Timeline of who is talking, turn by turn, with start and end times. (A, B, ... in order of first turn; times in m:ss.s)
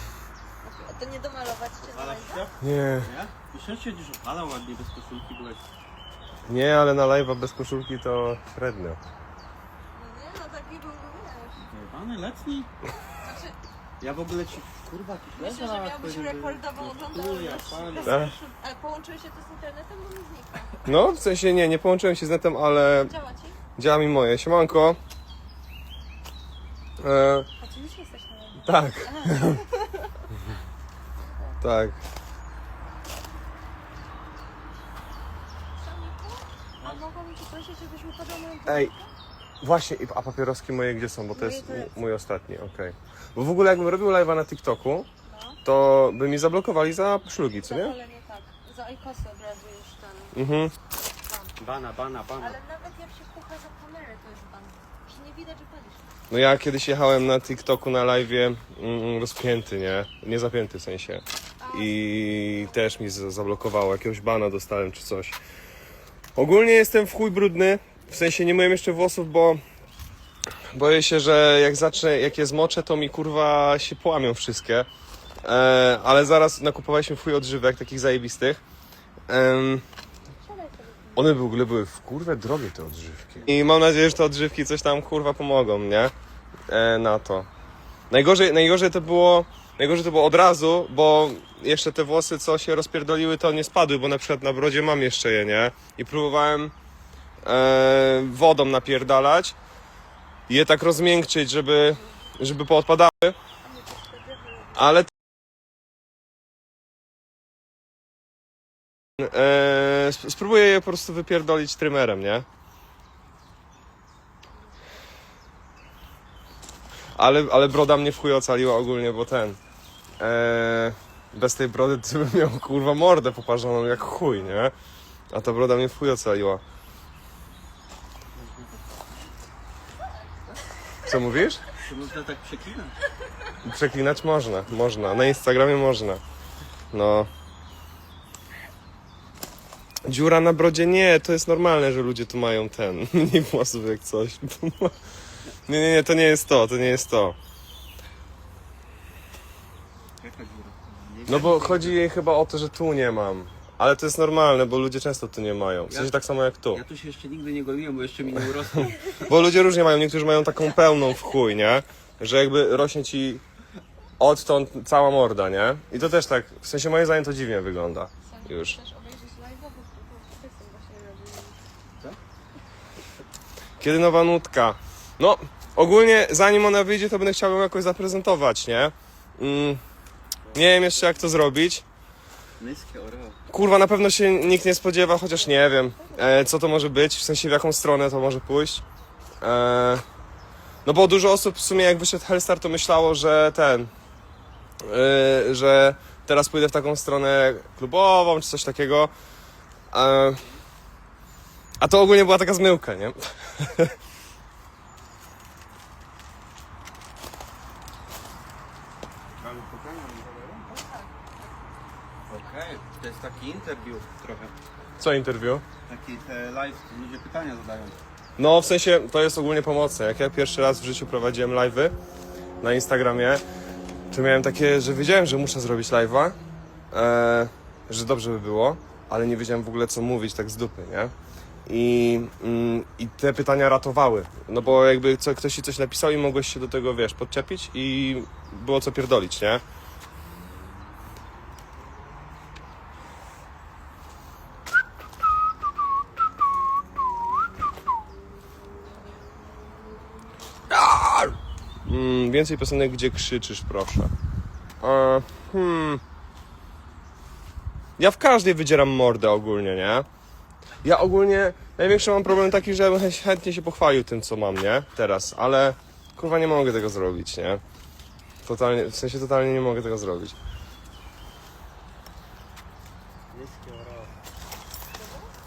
0:00.6-0:02.5 A
0:01.8-0:05.6 B
0:02.6-0:03.1 C
0:06.5-0:09.0 C
0:09.9-0:11.7 A
0:11.7-0:12.7 B
0:13.2-0:13.6 A
0:14.0-0:18.3 B
0:15.4-0:20.8 A
0:18.0-0:18.3 C
0:20.8-0:23.1 C
0:23.0-0:23.6 A
0:23.8-0:25.0 C
0:27.0-0:27.5 C
0:27.6-0:30.3 A
0:28.6-0:29.6 C
0:31.2-0:31.6 A
0:31.6-0:32.0 C
0:35.8-0:39.1 A
0:38.7-0:38.9 C
0:39.6-0:45.1 C
0:41.3-0:41.9 A
0:45.2-0:45.6 A
0:45.6-0:47.9 C
0:47.6-0:50.4 A
0:50.3-0:50.7 C
0:51.6-0:52.6 B
0:52.4-0:56.1 A
0:56.3-1:05.4 C
1:01.6-1:02.7 A
1:06.4-1:09.6 C
1:10.7-1:14.9 C
1:15.4-1:18.6 C
1:19.3-1:19.8 C
1:20.4-1:21.4 A
1:21.1-1:26.1 C
1:26.7-1:27.5 C
1:28.1-1:36.7 C
1:37.4-1:39.6 C
1:40.5-1:43.4 C
1:43.6-1:44.9 A
1:44.8-1:45.1 C
1:49.2-1:52.4 C
1:57.1-1:59.6 C
2:00.2-2:04.7 C
2:05.3-2:06.6 C
2:08.3-2:08.8 B
2:11.0-2:11.6 C
2:11.7-2:13.0 B
2:13.6-2:16.2 C
2:16.9-2:17.3 C
2:20.0-2:25.1 C
2:25.6-2:27.4 C
2:30.2-2:32.0 B
2:31.3-2:36.8 C
2:36.7-2:39.2 B
2:39.2-2:43.4 C
2:44.2-2:48.8 C
2:48.2-2:51.6 A
2:53.8-2:59.8 C
3:00.5-3:01.3 B
3:00.5-3:01.8 C
3:02.6-3:03.4 B
3:03.5-3:08.8 C
3:05.3-3:06.4 A
3:09.4-3:10.0 C
3:10.8-3:13.9 C
3:14.8-3:19.1 C
3:19.9-3:20.4 C
3:21.8-3:24.0 C
3:29.4-3:30.8 B
3:30.7-3:31.4 A
3:32.3-3:32.8 A
3:32.3-3:34.5 B
3:35.0-3:35.6 C
3:35.8-3:38.0 B
3:38.4-3:41.9 C
3:42.6-3:43.4 C
3:44.1-3:46.4 C
3:46.9-3:51.1 C
3:51.6-3:59.6 C
4:10.7-4:14.1 C
4:14.8-4:16.0 C
4:18.0-4:20.1 C
4:20.8-4:27.6 C
4:28.4-4:30.4 C
4:33.3-4:34.1 B
4:34.9-4:35.3 A